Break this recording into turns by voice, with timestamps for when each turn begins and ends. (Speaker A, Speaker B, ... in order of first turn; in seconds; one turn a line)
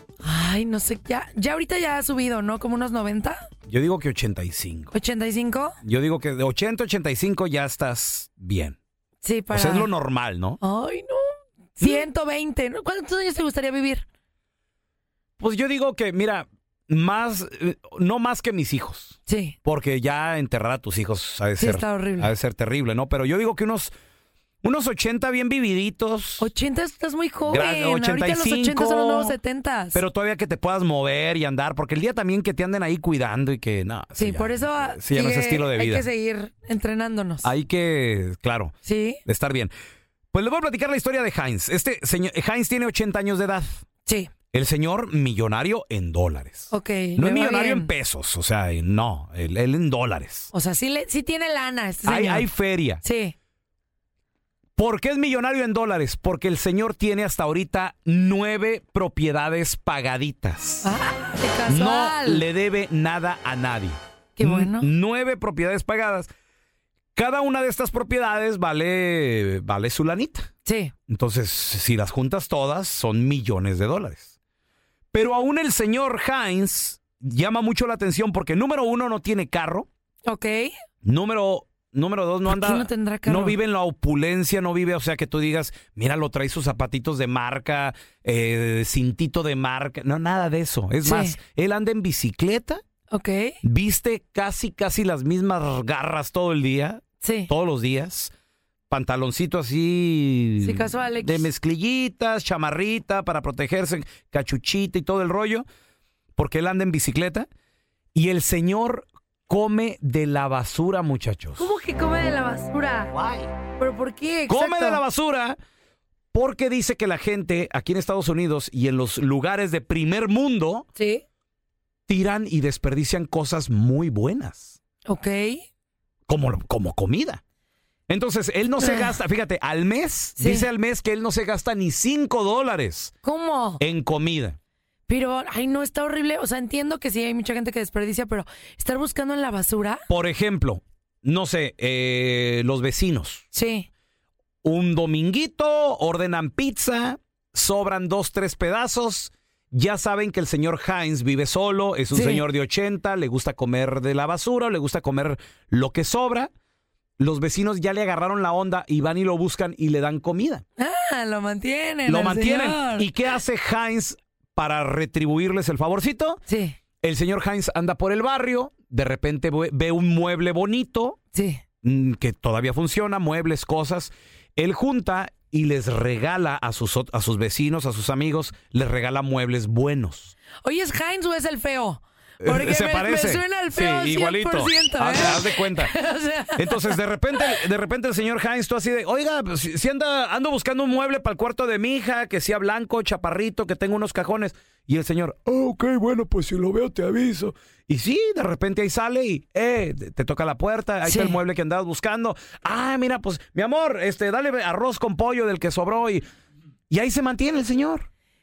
Speaker A: 0.2-3.5
Speaker B: 3.7-4.9
Speaker A: 4.9-5.8
Speaker B: 5.8-8.8
Speaker A: 9.2-9.9
Speaker B: 9.5-10.6
Speaker A: 10.6-14.1
Speaker B: 11.8-12.1
Speaker B: 15.4-23.9
Speaker A: 19.3-19.6
Speaker A: 21.6-22.3
Speaker B: 24.6-26.5
Speaker A: 26.4-30.0
Speaker B: 27.5-29.4
Speaker B: 29.9-36.1
Speaker A: 34.2-37.5
Speaker B: 37.4-38.7
Speaker A: 38.9-39.2
Speaker B: 39.2-39.7
Speaker B: 40.3-43.9
Speaker A: 44.1-44.3
Speaker B: 44.5-50.5
Speaker A: 46.7-47.9
Speaker A: 50.5-52.5
Speaker B: 52.0-53.0
Speaker A: 53.0-53.3
Speaker B: 54.8-60.9
Speaker A: 60.8-62.4
Speaker B: 61.7-66.3
Speaker A: 64.4-64.9
Speaker B: 67.2-70.5
Speaker A: 70.7-70.9
Speaker B: 71.1-74.3
Speaker B: 75.1-79.9
Speaker A: 80.3-80.7
Speaker B: 81.0-92.8
Speaker A: 82.5-83.6
Speaker A: 91.0-91.4
Speaker A: 93.1-93.6
Speaker B: 93.6-98.3
Speaker A: 97.2-97.5
Speaker B: 98.9-105.7
Speaker A: 100.6-101.5
Speaker B: 106.4-107.5
Speaker B: 108.2-111.7
Speaker A: 111.6-113.1
Speaker B: 113.1-113.5
Speaker A: 113.8-115.0
Speaker B: 114.5-115.6
Speaker B: 116.3-120.9
Speaker A: 121.0-121.2
Speaker B: 122.1-124.8
Speaker A: 125.1-125.6
Speaker B: 126.3-127.4
Speaker B: 128.1-133.1
Speaker A: 128.8-129.1
Speaker A: 130.4-130.7
Speaker A: 133.2-133.8
Speaker B: 133.8-134.6
Speaker A: 135.1-140.1
Speaker B: 140.1-143.4
Speaker A: 143.5-143.9
Speaker B: 144.6-156.5
Speaker A: 152.1-152.4
Speaker B: 157.2-160.7
Speaker A: 160.8-163.1
Speaker B: 162.1-166.4
Speaker A: 166.5-166.8
Speaker B: 167.0-171.2
Speaker A: 171.3-171.6
Speaker B: 171.8-180.3
Speaker A: 180.6-187.6
Speaker B: 182.4-185.9
Speaker B: 186.6-206.2
Speaker A: 201.1-201.4
Speaker B: 206.9-208.1